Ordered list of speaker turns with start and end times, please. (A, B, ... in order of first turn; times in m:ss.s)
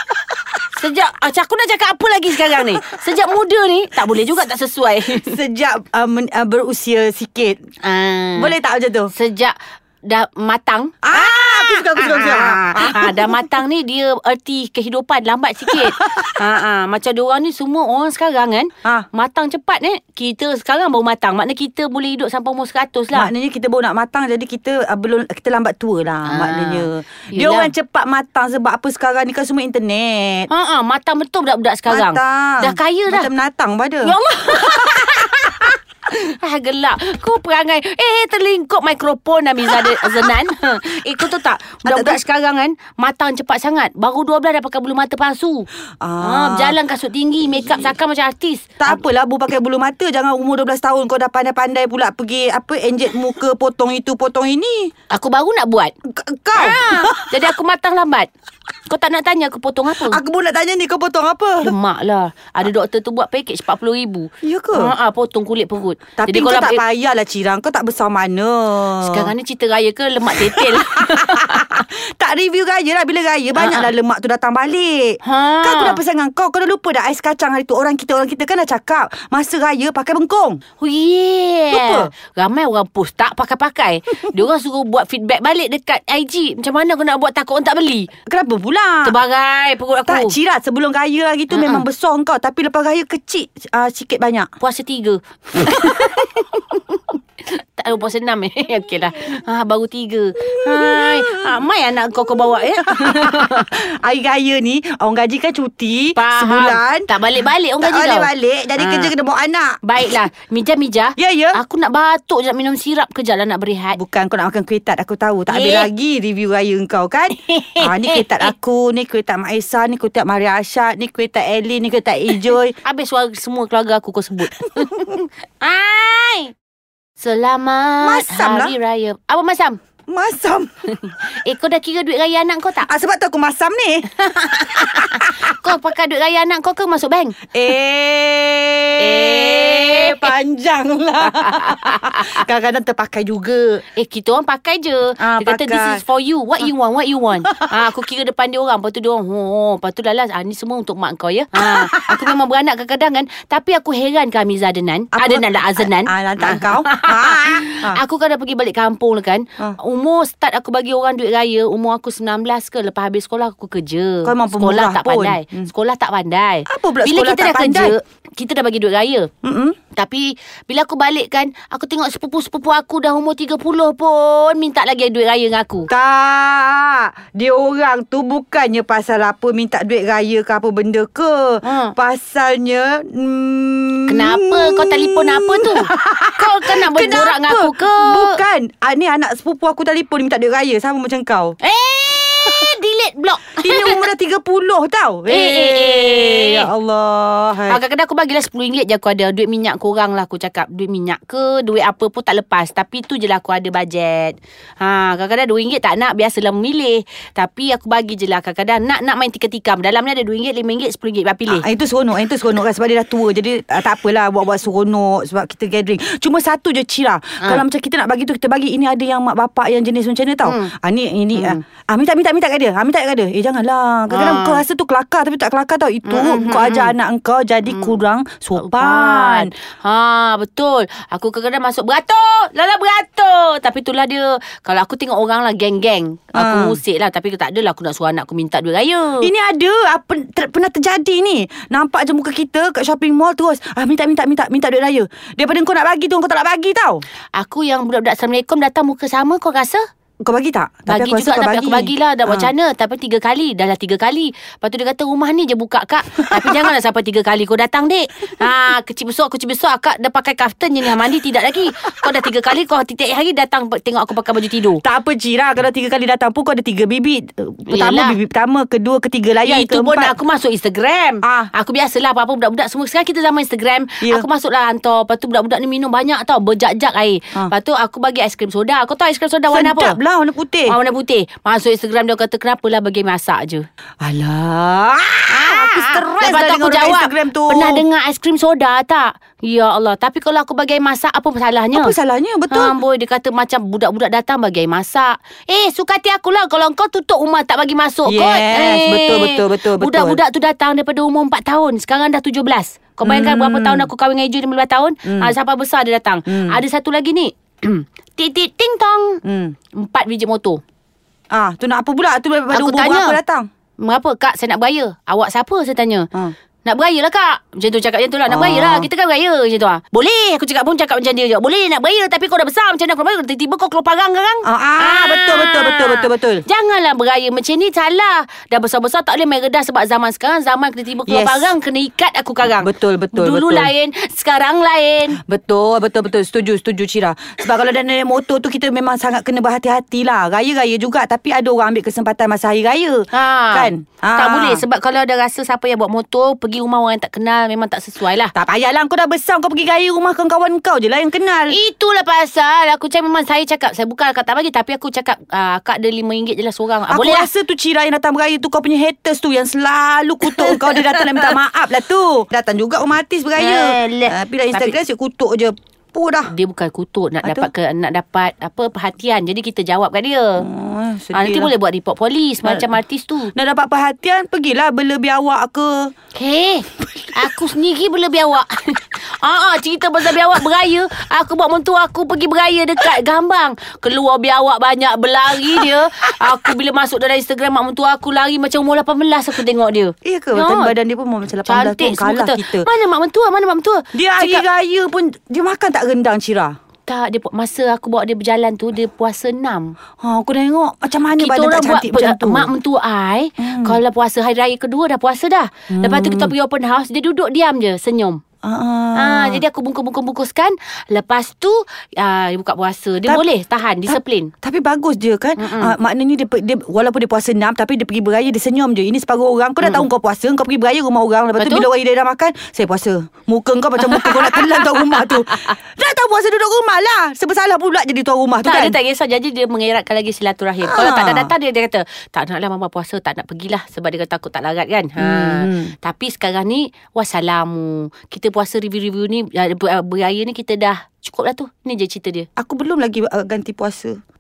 0:00.8-0:05.4 A
0:05.1-0:07.6 B
0:07.8-0:08.5 A
0:08.4-0:09.1 B
0:09.1-0:23.3 A
0:11.0-0:13.6 B
0:15.7-0:16.4 B
0:23.1-0:30.5 B
0:26.3-0:27.7 A
0:30.5-0:33.3 A
0:31.9-0:34.2 B
0:34.0-0:45.7 A
0:39.7-0:40.3 B
0:41.8-0:42.2 B
0:46.0-0:46.8 B
0:46.2-0:49.0 A
0:47.5-0:47.9 B
0:48.8-0:54.9 B
0:55.1-0:55.9 A
0:56.0-0:57.5 B
0:56.6-0:58.3 A
0:58.9-1:00.2 A
1:00.0-1:01.7 B
1:01.6-1:06.8 A
1:04.4-1:04.9 B
1:06.2-1:09.3 B
1:09.0-1:11.8 A
1:10.3-1:20.6 B
1:13.6-1:13.9 A
1:15.2-1:16.0 A
1:20.8-1:28.1 A
1:21.7-1:22.1 B
1:28.3-1:29.2 B
1:29.0-1:30.4 A
1:30.1-1:34.5 B
1:31.5-1:31.8 A
1:34.6-1:43.7 A
1:40.4-1:41.6 B
1:42.5-1:47.1 B
1:46.2-1:49.1 A
1:47.8-1:49.8 B
1:49.8-1:54.0 A
1:51.2-1:51.6 B
1:54.0-2:02.8 B
1:55.5-1:55.9 A
1:57.4-1:58.5 A
2:02.8-2:06.5 A
2:04.7-2:05.2 B
2:07.2-2:09.8 A
2:08.0-2:08.8 B
2:10.1-2:10.7 B
2:10.9-2:12.9 A
2:12.8-2:15.8 B
2:14.2-2:17.4 A
2:17.5-2:23.8 B
2:19.0-2:20.3 A
2:21.2-2:22.4 A
2:23.9-2:49.3 A
2:25.2-2:26.0 B
2:27.4-2:27.9 B
2:31.6-2:32.4 B
2:35.1-2:38.0 B
2:44.2-2:45.7 B
2:46.7-2:48.0 B
2:49.4-2:49.8 B
2:50.0-2:55.9 A
2:55.9-3:11.6 B
3:01.6-3:01.9 A
3:04.1-3:08.4 A
3:11.6-3:14.1 A
3:13.6-3:17.8 B
3:15.3-3:16.7 A
3:17.7-3:31.6 A
3:31.5-3:49.5 B
3:40.4-3:40.7 A
3:41.3-3:41.6 A
3:44.1-3:44.6 A
3:46.1-3:46.9 A
3:47.7-3:48.0 A
3:48.6-3:59.3 A
3:56.3-3:56.8 B
3:59.2-4:07.0 B
4:07.4-4:09.8 A
4:10.2-4:12.5 B
4:10.9-4:24.8 A
4:16.2-4:16.7 B
4:24.8-4:30.2 B
4:27.7-4:28.2 A
4:29.4-4:40.0 A
4:31.2-4:31.5 B
4:34.0-4:34.3 B
4:39.5-4:40.8 B
4:40.7-4:43.6 A
4:44.0-4:47.8 B
4:45.3-4:51.9 A
4:51.7-4:52.8 B
4:52.5-5:09.2 A
4:58.1-5:00.2 B
5:03.0-5:03.9 B
5:05.1-5:05.3 B
5:06.3-5:06.6 B
5:09.2-5:09.5 B
5:09.8-5:10.6 A
5:11.3-5:13.5 B
5:12.5-5:13.2 A
5:13.8-5:16.1 A
5:16.6-5:35.2 A
5:18.3-5:18.9 B
5:24.4-5:26.4 B
5:31.1-5:31.6 B
5:32.6-5:33.7 B
5:35.2-5:44.6 B
5:43.1-5:48.3 A
5:48.4-5:51.6 B
5:51.5-5:57.3 A
5:56.9-6:06.3 B
6:00.3-6:01.4 A
6:03.4-6:04.8 A
6:06.3-6:10.5 A
6:07.2-6:07.5 B
6:10.4-6:11.5 B
6:11.1-6:13.3 A
6:12.4-6:12.8 B
6:13.4-6:15.9 B
6:16.2-6:30.8 A
6:25.6-6:25.9 B
6:30.0-6:32.7 B
6:31.5-6:34.4 A
6:33.9-6:36.6 B
6:36.9-6:39.8 A
6:40.0-6:42.5 B
6:41.2-6:48.2 A
6:43.4-6:43.8 B
6:45.7-6:46.3 B
6:48.4-6:49.4 B
6:49.0-6:54.3 A
6:53.9-7:08.8 B
6:55.4-6:55.8 A
7:01.4-7:01.7 A
7:03.8-7:05.4 A
7:08.4-7:22.3 A
7:10.6-7:11.3 B
7:15.0-7:15.8 B
7:22.4-7:24.0 B